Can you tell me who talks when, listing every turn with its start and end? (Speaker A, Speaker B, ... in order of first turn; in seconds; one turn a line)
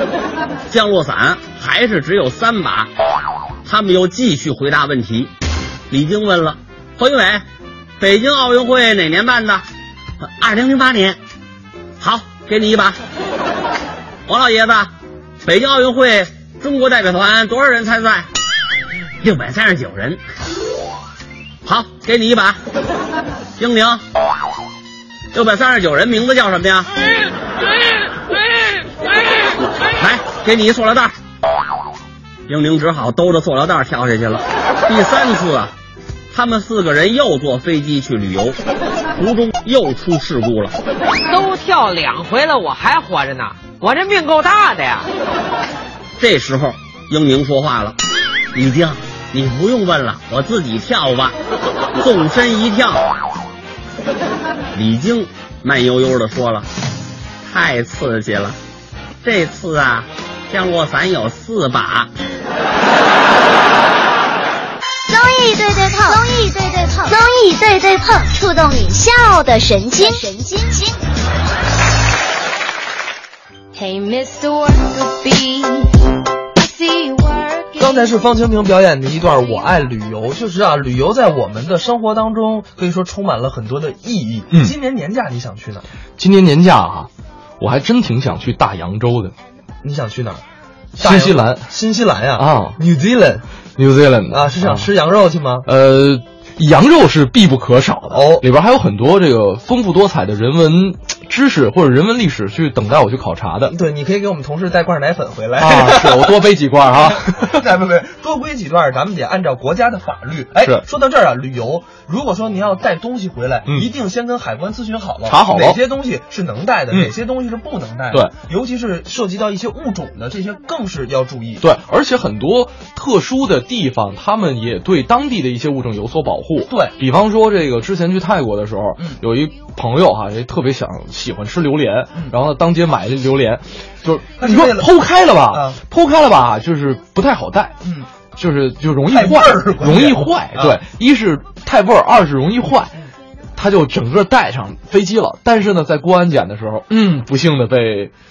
Speaker A: 0.7-2.9
Speaker A: 3.6-5.3
Speaker A: 5.9-7.4
Speaker A: 8.0-9.6
Speaker A: 10.2-11.2
Speaker A: 12.0-13.0
Speaker A: 14.3-14.9
Speaker A: 15.4-18.2
Speaker A: 19.2-20.2
Speaker A: 21.6-22.6
Speaker A: 23.6-24.0
Speaker A: 25.3-26.9
Speaker A: 30.0-31.1
Speaker A: 32.5-35.7
Speaker A: 36.3-38.6
Speaker A: 39.1-40.7
Speaker B: 41.3-45.1
Speaker A: 46.2-48.0
Speaker A: 48.5-51.3
Speaker A: 52.0-53.0
Speaker A: 54.7-56.6
Speaker A: 57.4-58.5
Speaker A: 59.2-62.1
Speaker C: 65.1-70.9
Speaker D: 73.7-75.9
Speaker D: 76.5-78.3
Speaker E: 77.8-85.8
Speaker F: 86.2-89.3
Speaker E: 89.8-90.4
Speaker E: 91.0-93.4
Speaker F: 91.0-91.7
Speaker F: 92.3-92.8
Speaker F: 93.8-94.9
Speaker E: 94.3-95.7
Speaker F: 95.6-103.7
Speaker E: 98.1-98.4
Speaker E: 103.7-106.4
Speaker F: 105.6-107.6
Speaker E: 107.0-121.7
Speaker F: 115.3-115.8
Speaker F: 121.6-137.8
Speaker E: 126.7-126.9
Speaker E: 134.4-134.9
Speaker E: 135.5-135.8
Speaker E: 137.8-138.1
Speaker F: 138.3-142.9
Speaker E: 139.1-140.8
Speaker F: 143.6-148.1